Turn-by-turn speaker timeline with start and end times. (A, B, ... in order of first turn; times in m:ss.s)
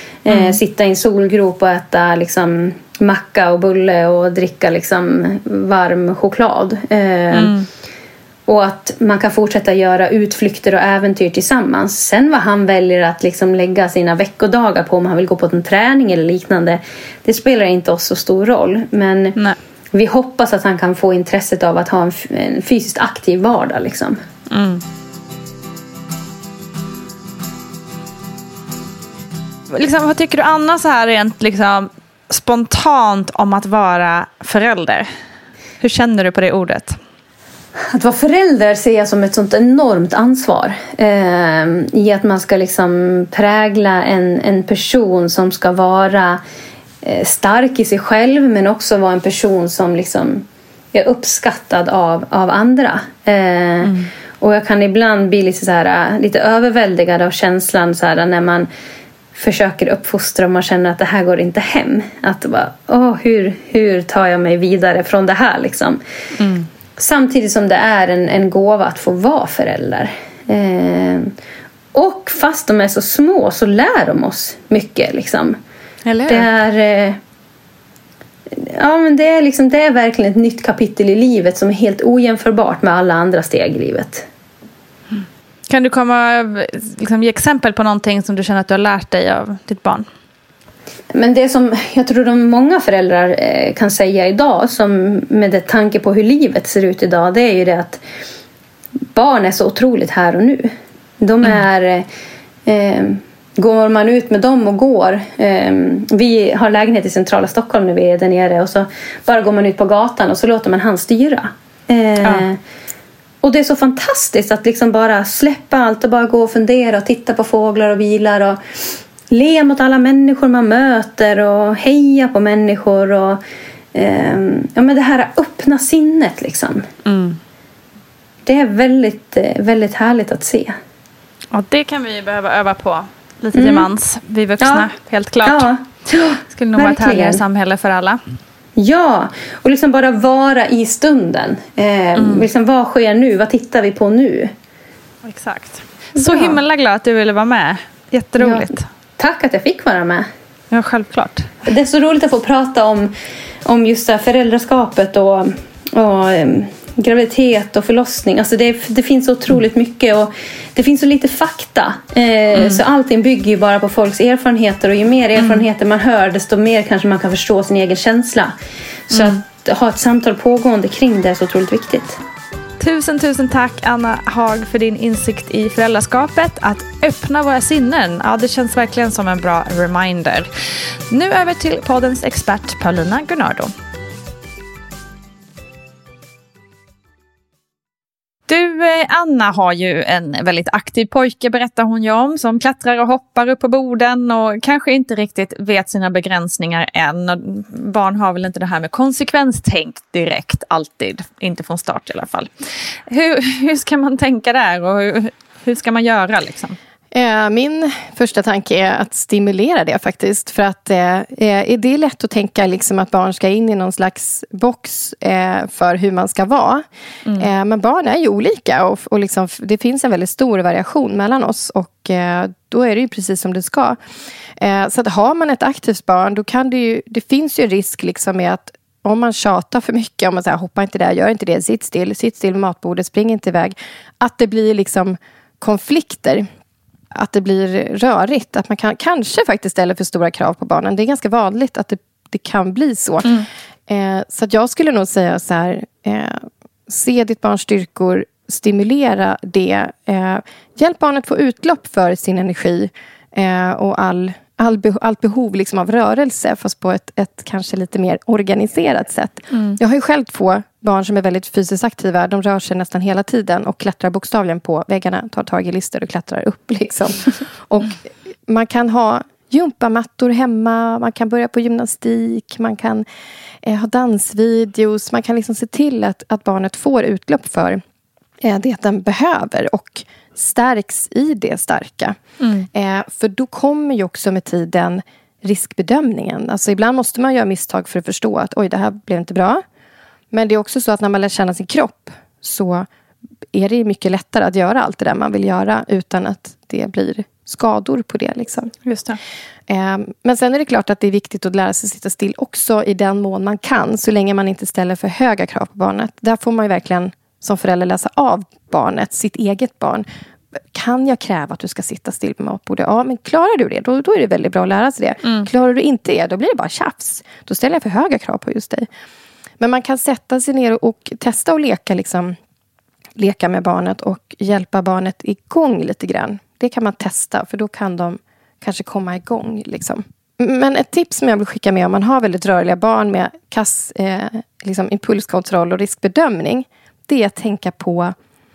0:00.2-0:07.5 A
0:00.3-0:00.6 B
0:07.3-0:07.7 B
0:08.5-0:19.4 A
0:19.9-0:24.2 A
0:24.5-0:24.8 B
0:29.7-0:35.1 B
0:35.8-0:37.0 B
0:37.9-0:46.4 A
0:47.0-0:58.7 A
0:53.8-0:54.1 B
0:59.3-1:06.0 A
1:06.4-1:06.7 B
1:07.0-1:11.3 A
1:11.9-1:15.6 A
1:16.0-1:16.5 B
1:16.3-1:17.2 A
1:18.5-1:24.2 A
1:25.1-1:30.0 B
1:31.1-1:38.0 A
1:39.1-1:42.1 A
1:42.6-1:52.6 A
1:53.4-1:58.6 A
1:59.3-2:03.4 A
2:03.9-2:06.8 A
2:07.0-2:07.4 B
2:08.4-2:10.8 A
2:11.5-2:15.7 B
2:13.5-2:13.9 A
2:14.6-2:14.9 A
2:15.4-2:17.4 A
2:16.5-2:18.2 B
2:18.8-2:24.5 A
2:22.2-2:22.5 B
2:25.2-2:28.8 B
2:26.2-2:26.6 A
2:28.4-2:30.3 A
2:30.7-2:31.6 B
2:31.7-2:33.1 A
2:33.6-2:48.5 A
2:42.5-2:42.8 B
2:45.4-2:45.6 B
2:49.1-2:49.4 B
2:49.1-2:52.2 A
2:52.8-3:00.5 B
3:01.1-3:03.7 B
3:08.5-3:22.5 B
3:23.1-3:26.8 B
3:27.1-3:36.8 C
3:37.2-3:37.5 B
3:37.4-3:44.0 C
3:44.6-3:56.4 C
3:57.1-4:33.0 C
4:19.5-4:19.8 B
4:33.6-4:37.8 C
4:38.4-4:42.2 C
4:42.4-4:42.7 B
4:42.7-4:49.6 C
4:50.3-4:52.9 C
4:53.5-4:58.7 C
4:58.8-4:59.2 B
4:59.7-5:10.0 C
5:10.6-5:18.9 C
5:15.2-5:15.5 B
5:19.6-5:22.4 C
5:23.2-5:38.1 C